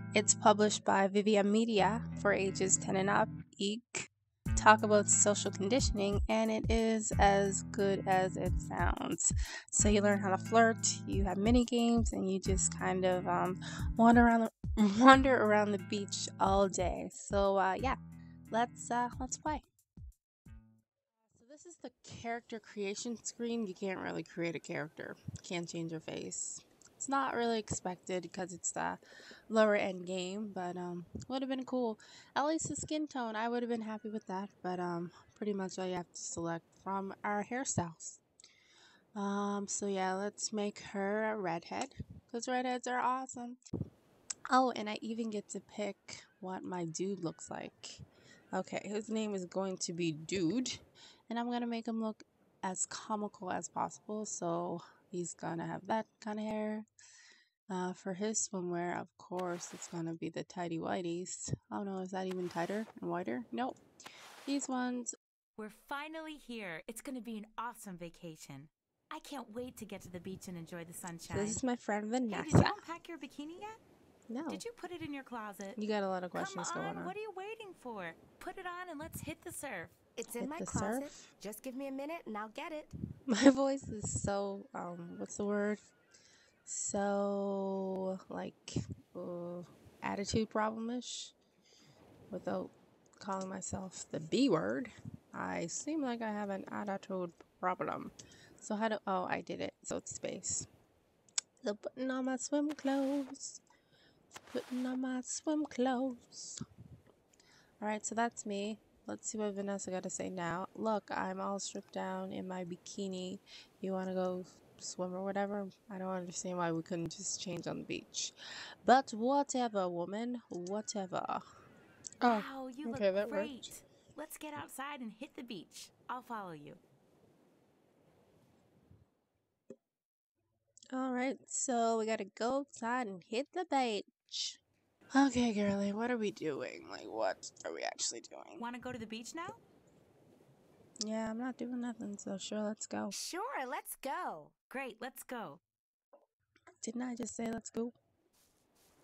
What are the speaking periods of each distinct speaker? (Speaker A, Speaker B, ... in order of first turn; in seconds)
Speaker A: 0.1-18.0, 18.5-19.6, 21.3-38.2, 39.1-43.6, 44.5-56.9, 57.7-63.8, 64.5-65.1, 71.3-72.8, 74.3-74.6, 75.8-77.1, 80.4-81.3, 83.3-85.8, 86.7-91.3, 92.3-100.7, 101.6-103.6, 104.5-106.6, 107.8-118.3, 118.8-121.4, 122.2-123.7, 130.9-134.6, 135.1-138.7, 141.0-143.1, 146.8-147.9
Speaker B: 65.6-71.6, 72.3-73.8, 74.5-75.8, 76.3-80.0, 122.2-126.8, 138.6-139.6, 144.7-145.6
Speaker C: 80.2-82.9, 143.1-144.6